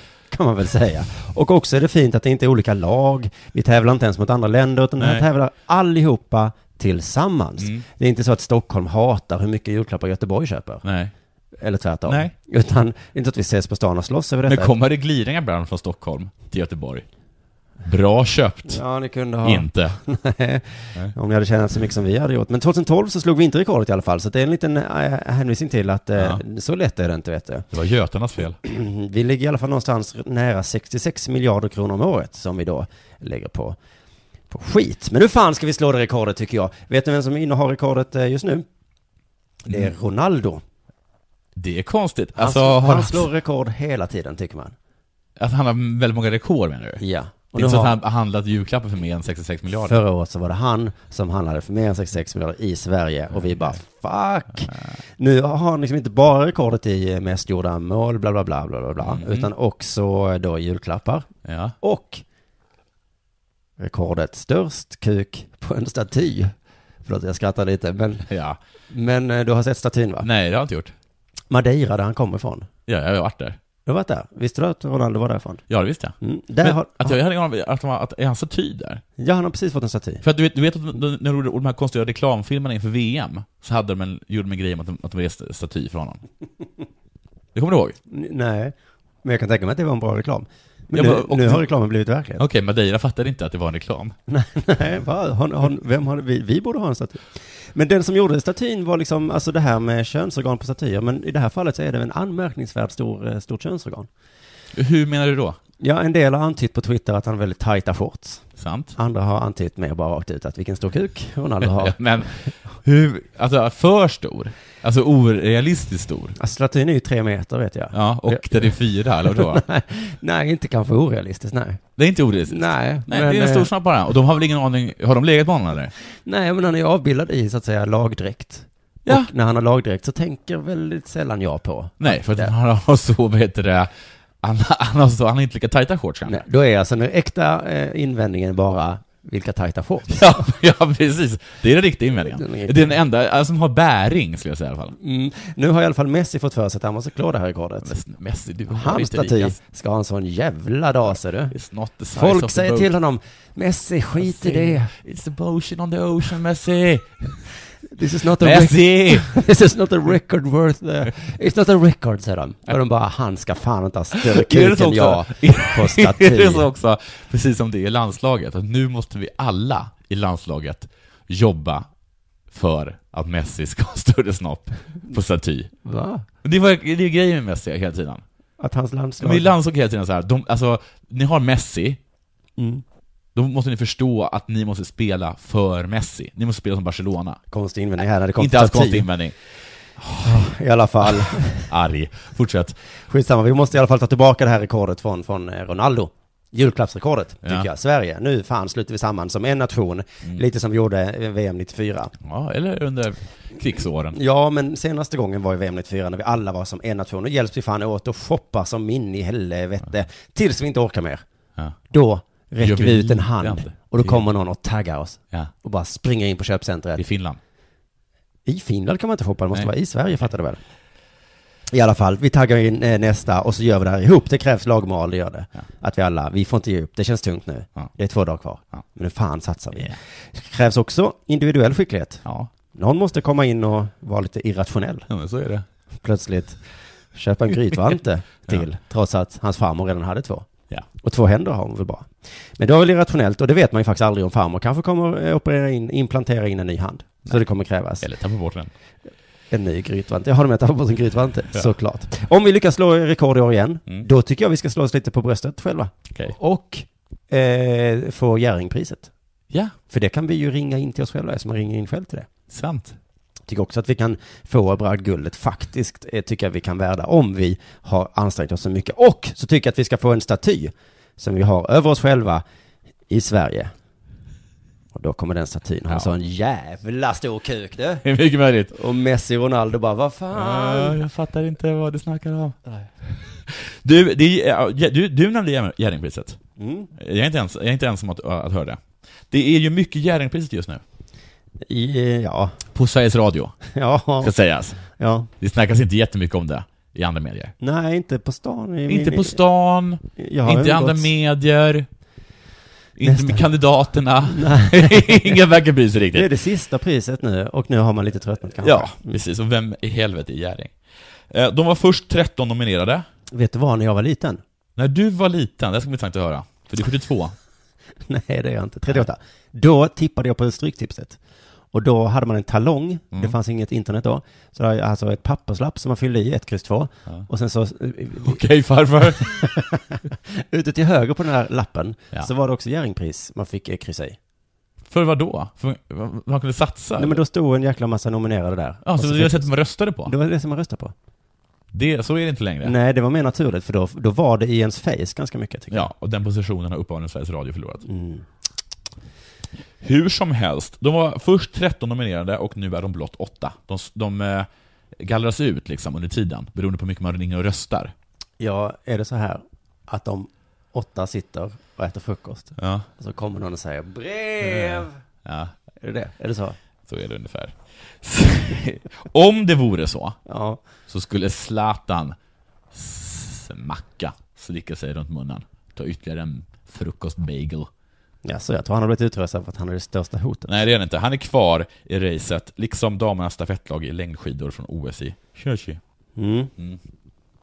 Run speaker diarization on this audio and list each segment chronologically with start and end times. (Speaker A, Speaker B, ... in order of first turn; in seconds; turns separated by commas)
Speaker A: 0.3-10.8, Speaker B: 5.0-5.2, Speaker B: 7.6-7.8, Speaker B: 10.8-11.1, Speaker A: 11.6-14.7, Speaker B: 12.1-12.3, Speaker B: 14.5-17.1, Speaker B: 17.8-18.8, Speaker A: 18.7-27.7, Speaker B: 19.4-20.0, Speaker B: 26.2-26.4, Speaker B: 27.7-28.6, Speaker A: 28.6-33.8, Speaker A: 34.5-38.6, Speaker A: 39.6-40.6, Speaker B: 41.5-43.3, Speaker A: 42.4-44.8, Speaker B: 45.4-47.0, Speaker A: 47.0-48.0, Speaker B: 47.5-50.0, Speaker A: 49.9-61.3, Speaker B: 53.3-53.8, Speaker B: 54.6-54.9, Speaker B: 59.0-59.5, Speaker B: 61.5-61.8, Speaker A: 61.8-62.2, Speaker A: 63.8-66.5, Speaker A: 67.0-68.3, Speaker B: 68.3-68.6, Speaker A: 68.9-70.3, Speaker B: 70.2-70.9, Speaker A: 71.5-72.7, Speaker B: 72.9-73.6, Speaker A: 73.9-75.6, Speaker B: 75.7-79.0, Speaker A: 76.2-77.2, Speaker A: 79.2-80.2, Speaker B: 80.2-86.2, Speaker B: 87.5-88.0, Speaker A: 88.1-92.4, Speaker B: 90.9-91.7, Speaker B: 92.4-94.1, Speaker A: 94.3-104.1, Speaker B: 104.7-105.6, Speaker A: 105.8-112.0, Speaker B: 108.6-109.0, Speaker B: 111.6-116.4, Speaker A: 116.4-121.8, Speaker B: 117.9-119.6, Speaker B: 122.0-125.9, Speaker A: 122.5-123.7, Speaker A: 126.2-132.5, Speaker B: 129.1-129.3, Speaker B: 132.0-136.4, Speaker A: 136.2-140.4, Speaker B: 140.1-144.9, Speaker A: 142.3-142.9, Speaker A: 145.0-147.9, Speaker B: 147.8-149.6, Speaker A: 148.7-151.5, Speaker B: 151.5-152.9, Speaker A: 152.1-154.9, Speaker B: 154.2-157.5, Speaker A: 157.9-166.7, Speaker B: 158.4-159.4, Speaker B: 164.1-171.9, Speaker B: 172.5-175.7, Speaker A: 175.8-176.2, Speaker B: 176.4-178.2, Speaker A: 178.6-179.5, Speaker B: 179.2-182.0, Speaker A: 182.6-182.8, Speaker B: 183.3-187.4, Speaker A: 187.5-189.1, Speaker B: 188.4-189.4, Speaker B: 190.0-190.5, Speaker A: 190.2-191.7, Speaker B: 191.0-192.8, Speaker A: 193.1-202.1, Speaker B: 197.4-197.7, Speaker B: 202.2-204.2, Speaker A: 204.1-211.2, Speaker A: 211.9-217.0, Speaker B: 212.6-214.2, Speaker B: 217.0-217.4, Speaker A: 218.5-220.6, Speaker A: 221.7-235.1, Speaker B: 232.2-232.5, Speaker B: 235.1-235.7, Speaker A: 236.0-236.6, Speaker A: 237.1-240.5, Speaker A: 241.0-248.1, Speaker B: 248.0-248.7, Speaker A: 249.5-259.1, Speaker A: 259.9-262.3, Speaker B: 262.5-263.0, Speaker A: 263.5-272.4, Speaker A: 273.1-273.7, Speaker A: 274.9-278.0, Speaker B: 278.0-278.7, Speaker A: 278.7-281.0, Speaker B: 280.3-286.4, Speaker A: 286.6-286.9, Speaker B: 286.9-290.8, Speaker A: 291.7-292.6, Speaker B: 292.7-293.6, Speaker A: 293.7-294.3, Speaker B: 294.2-294.8, Speaker A: 294.9-295.3, Speaker B: 295.4-297.5, Speaker A: 297.6-299.4, Speaker B: 298.9-301.9, Speaker A: 300.2-301.1, Speaker B: 303.0-306.3, Speaker A: 303.0-303.4, Speaker A: 304.3-305.4, Speaker A: 306.1-309.1, Speaker B: 308.6-310.7, Speaker B: 311.3-313.1, Speaker A: 313.3-314.4, Speaker B: 314.8-317.4, Speaker A: 318.1-321.2, Speaker A: 321.7-328.4, Speaker B: 328.2-329.5, Speaker A: 329.1-334.2, Speaker B: 334.9-337.2, Speaker A: 337.0-340.9, Speaker B: 338.8-340.1, Speaker B: 341.7-342.8, Speaker A: 342.6-345.9, Speaker B: 345.7-347.9, Speaker A: 347.9-348.2, Speaker B: 349.8-357.9, Speaker A: 358.4-365.0, Speaker B: 362.6-362.9, Speaker B: 364.4-365.5, Speaker A: 365.8-366.6, Speaker B: 366.9-370.2, Speaker A: 370.3-370.6, Speaker B: 370.9-372.2, Speaker B: 372.7-377.7, Speaker A: 378.2-380.5, Speaker B: 380.5-385.8, Speaker A: 386.2-386.5